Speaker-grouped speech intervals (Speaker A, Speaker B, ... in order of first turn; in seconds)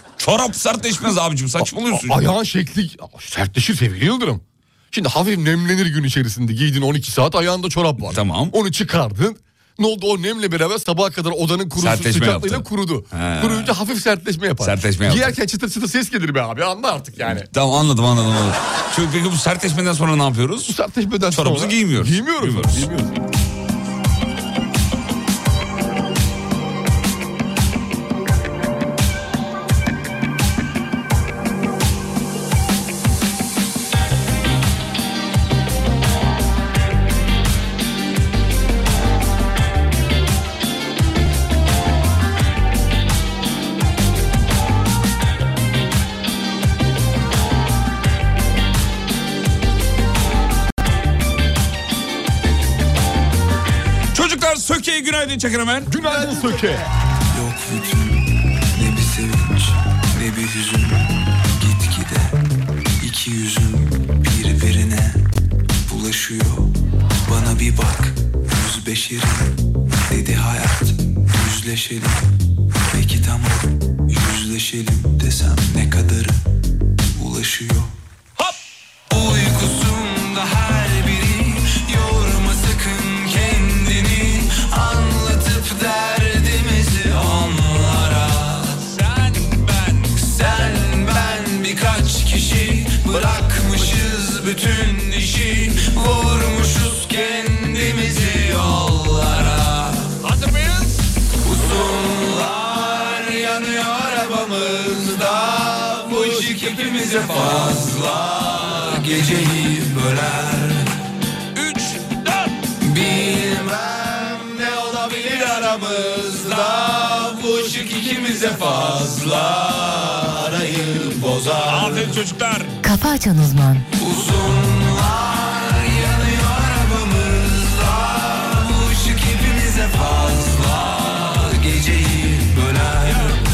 Speaker A: 0.2-2.2, 8.1-8.5, 11.8-13.7, 14.6-15.4, 17.2-20.8, 21.3-22.9, 54.1-55.9, 100.3-100.9, 111.5-112.5, 121.7-122.8
Speaker B: 1.9-17.5, 20.6-23.2, 55.9-56.8
Speaker C: 57.3-62.4, 63.0-65.2, 65.9-66.7, 67.2-69.6, 70.1-72.2, 72.9-76.4, 77.1-77.9, 79.1-88.9, 90.0-100.2, 101.4-110.9, 112.8-122.2, 124.0-133.4